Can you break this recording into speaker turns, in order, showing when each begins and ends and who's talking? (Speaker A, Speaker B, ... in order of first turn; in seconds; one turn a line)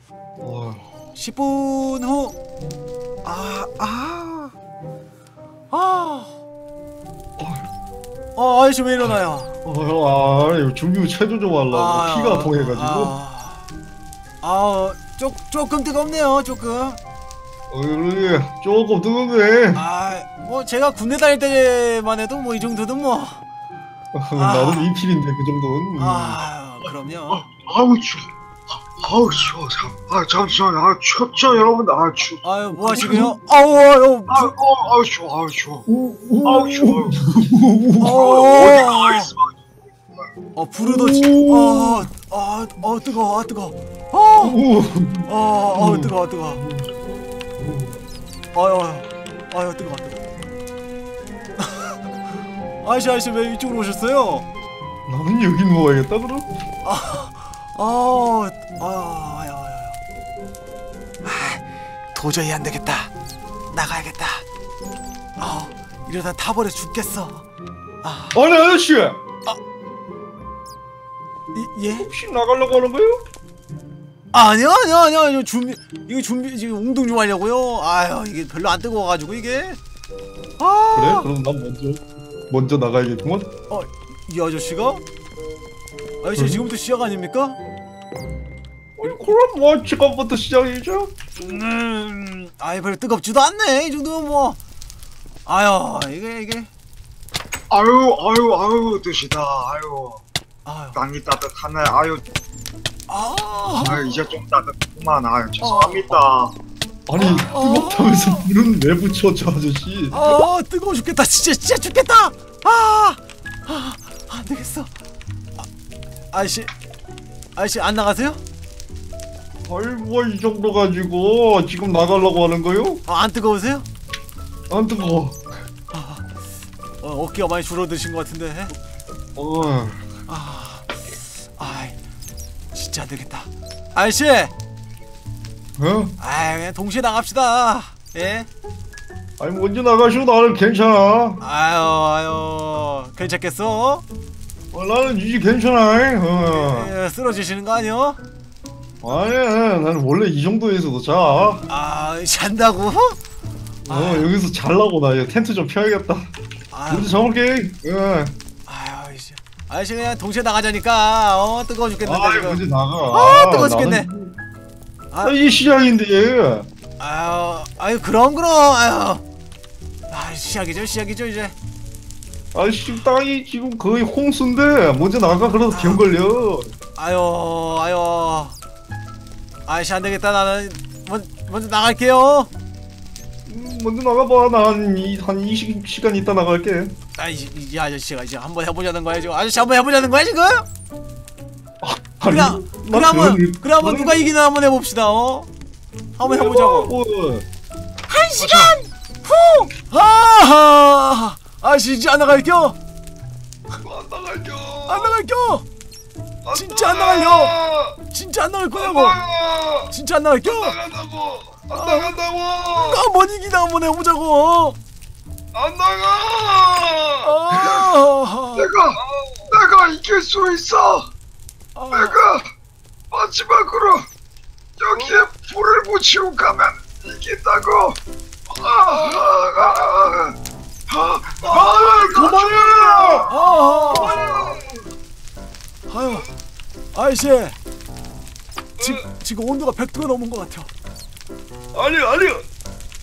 Speaker A: 0.4-0.9
Speaker B: 1.1-2.4
Speaker B: 3.2-4.5
Speaker B: 5.7-6.4
Speaker A: 7.4-7.7
Speaker B: 8.4-9.5
Speaker A: 9.6-13.2
Speaker B: 11.7-13.6
Speaker B: 14.4-17.0
Speaker A: 17.7-19.8
Speaker B: 19.8-23.4
Speaker A: 24.1-26.4
Speaker B: 24.4-24.9
Speaker B: 26.0-27.4
Speaker C: 27.3-32.5
Speaker B: 32.4-34.5
Speaker A: 32.9-33.3
Speaker C: 34.3-35.9
Speaker A: 35.9-38.8
Speaker C: 36.4-37.2
Speaker B: 38.0-39.3
Speaker C: 38.1-40.3
Speaker B: 40.5-44.6
Speaker A: 40.8-42.1
Speaker A: 44.4-46.9
Speaker B: 45.3-46.6
Speaker A: 47.6-48.0
Speaker B: 48.5-50.2
Speaker B: 51.6-52.0
Speaker B: 52.8-54.5
Speaker A: 55.1-56.5
Speaker B: 56.9-60.0
Speaker B: 61.2-63.1
Speaker B: 63.7-64.4
Speaker B: 65.4-67.5
Speaker B: 68.0-68.4
Speaker A: 68.3-69.2
Speaker B: 71.5-72.1
Speaker A: 71.9-73.2
Speaker B: 74.3-79.8
Speaker B: 80.6-81.3
Speaker A: 80.9-83.5
Speaker B: 83.7-85.0
Speaker B: 86.2-87.6
Speaker A: 86.4-86.6
Speaker A: 89.0-91.6
Speaker B: 91.4-94.6
Speaker B: 95.5-96.7
Speaker C: 97.7-100.2
Speaker B: 100.7-101.0
Speaker C: 101.0-102.2
Speaker B: 103.1-104.0
Speaker C: 103.8-106.5
Speaker B: 105.6-106.0
Speaker A: 107.1-110.2
Speaker B: 107.2-108.4
Speaker B: 110.1-114.9
Speaker B: 116.3-116.7
Speaker B: 117.6-118.4
Speaker A: 119.7-123.0
Speaker B: 123.1-123.8
Speaker A: 124.7-125.4
Speaker B: 125.9-126.2
Speaker B: 127.0-128.8
Speaker A: 129.4-130.0
Speaker B: 130.3-132.0
Speaker B: 132.7-134.5
Speaker A: 135.8-136.2
Speaker B: 136.2-138.5
Speaker A: 139.4-141.4
Speaker B: 141.4-144.0
Speaker A: 144.7-146.9
Speaker B: 146.5-148.2
Speaker A: 149.0-151.7
Speaker B: 151.7-153.2
Speaker B: 153.8-154.3
Speaker A: 153.9-156.3
Speaker B: 156.7-157.1
Speaker A: 156.9-158.4
Speaker B: 158.7-164.1
Speaker A: 162.0-164.3
Speaker A: 165.2-166.7
Speaker B: 167.0-169.2
Speaker B: 170.1-171.5
Speaker A: 172.5-176.7
Speaker B: 175.7-176.0
Speaker B: 177.0-178.6
Speaker B: 179.7-182.5
Speaker A: 183.5-186.9
Speaker B: 187.2-190.7
Speaker A: 191.8-194.2
Speaker B: 192.2-195.5
Speaker B: 196.2-196.9
Speaker A: 196.2-197.5
Speaker B: 198.1-202.8
Speaker A: 203.8-205.2
Speaker B: 204.9-205.7
Speaker A: 206.4-208.0
Speaker B: 206.5-207.6
Speaker B: 208.1-209.2
Speaker A: 208.8-213.0
Speaker B: 209.9-210.8
Speaker B: 211.7-212.2
Speaker B: 212.7-214.8
Speaker A: 215.5-217.9
Speaker B: 217.2-218.7
Speaker C: 218.6-219.0
Speaker A: 218.9-219.6
Speaker C: 219.5-221.1
Speaker B: 221.8-222.2
Speaker C: 221.9-222.5
Speaker C: 223.1-224.1
Speaker C: 224.8-228.0
Speaker C: 228.6-230.3
Speaker C: 230.9-233.3
Speaker A: 231.4-233.3
Speaker B: 233.3-234.2
Speaker A: 233.9-234.6
Speaker C: 234.1-234.6
Speaker B: 235.9-236.3
Speaker B: 236.9-237.6
Speaker B: 238.8-240.7
Speaker A: 241.7-242.5